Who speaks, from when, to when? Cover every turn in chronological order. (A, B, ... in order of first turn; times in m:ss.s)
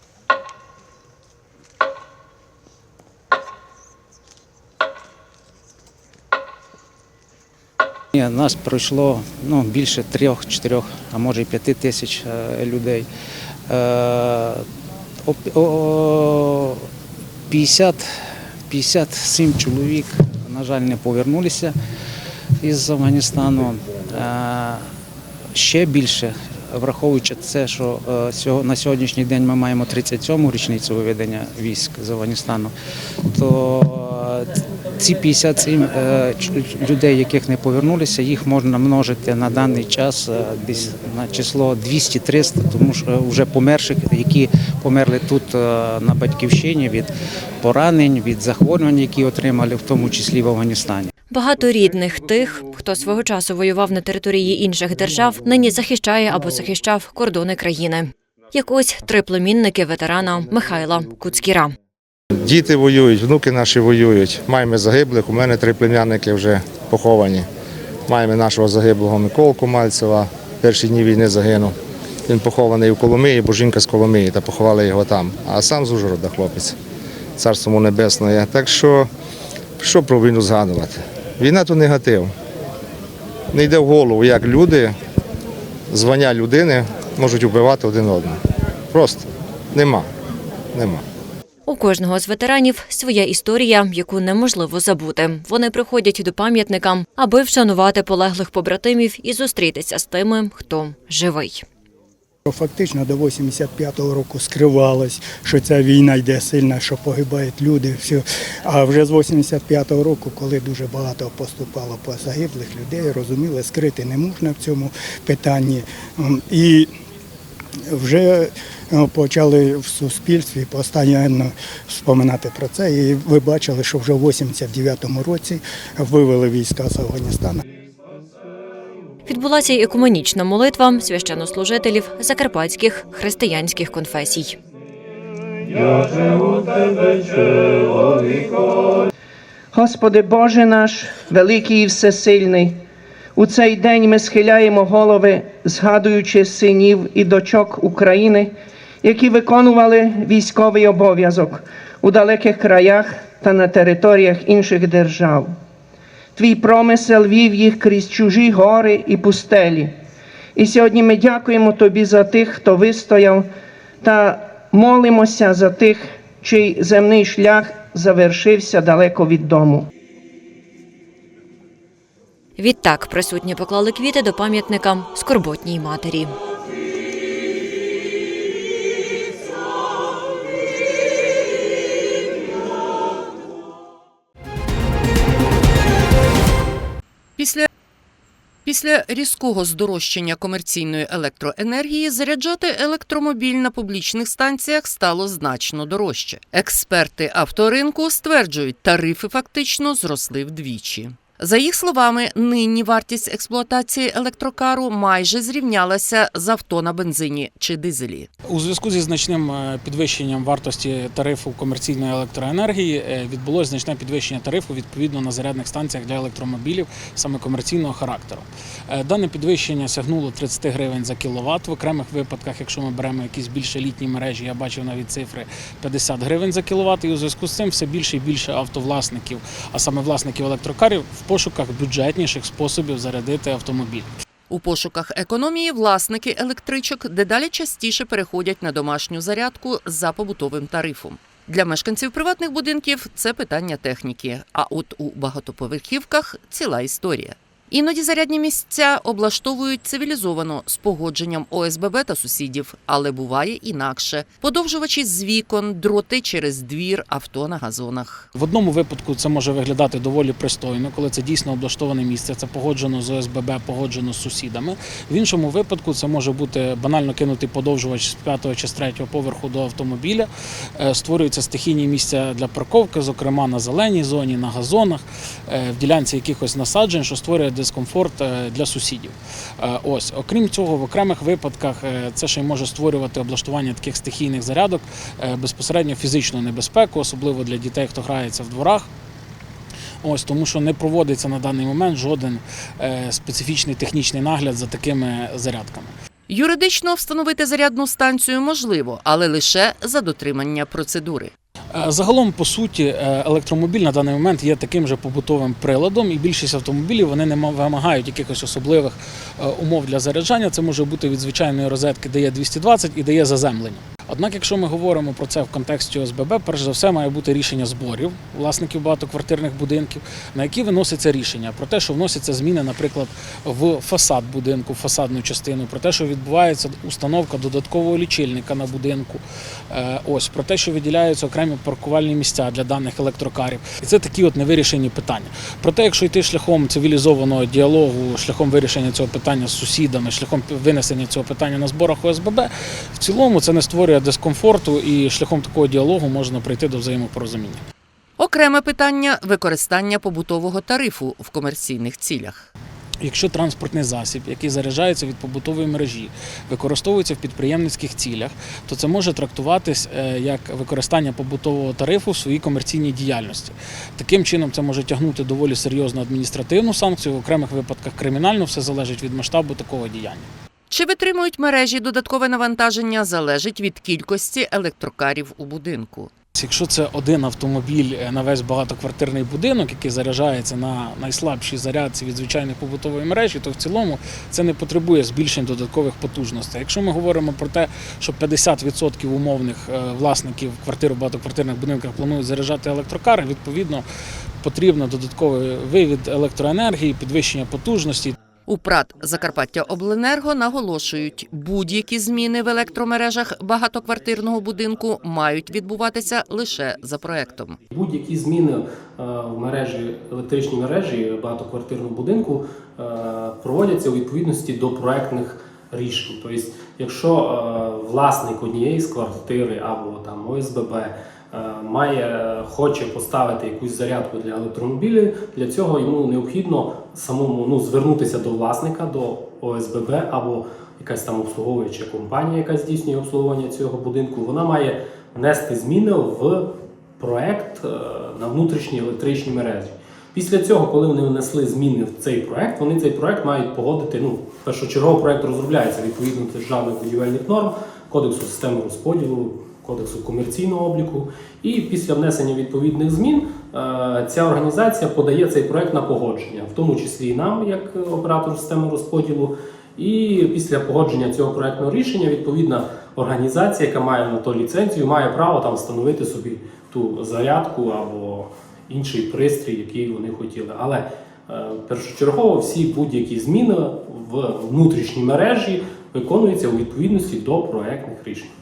0:08.2-0:13.1 A
0:13.7-0:14.6 A
0:15.2-0:16.9 A
0:17.5-0:21.8 A
0:22.6-0:24.9 A
0:25.5-0:32.7 A
0:33.3-0:47.1 A
0:47.6-0:51.1 A
0:51.3-1:01.8 B
1:02.4-1:07.4 C
1:08.1-1:11.7 C
1:12.3-1:16.7 C
1:17.4-1:19.1 C
1:19.8-1:22.3 C
1:23.5-1:24.9 C
1:25.9-1:28.4 C
1:28.9-1:30.1 C
1:30.7-1:31.0 C
1:31.7-1:41.6 B
1:42.4-1:56.9 D
1:57.9-2:07.6 D
2:09.2-2:14.6 B
2:19.7-2:22.8 E
2:23.3-2:35.5 E
2:36.4-2:39.9 E
2:40.5-2:43.5 E
2:44.0-2:49.9 E
2:52.6-2:56.3 B
3:07.4-3:07.7 F
3:08.6-3:28.3 F
3:28.5-3:54.1 G
3:54.5-4:18.3 F
4:18.3-4:48.9 G
4:50.0-4:55.9 G
4:56.3-5:01.3 F
5:01.7-5:47.6 G
5:48.2-5:52.5 F
5:53.0-6:10.3 G
6:10.7-6:16.1 F
6:16.4-6:33.8 G
6:34.4-6:38.1 G
6:38.5-6:47.6 F
6:47.7-7:16.4 H
7:17.0-7:58.3 H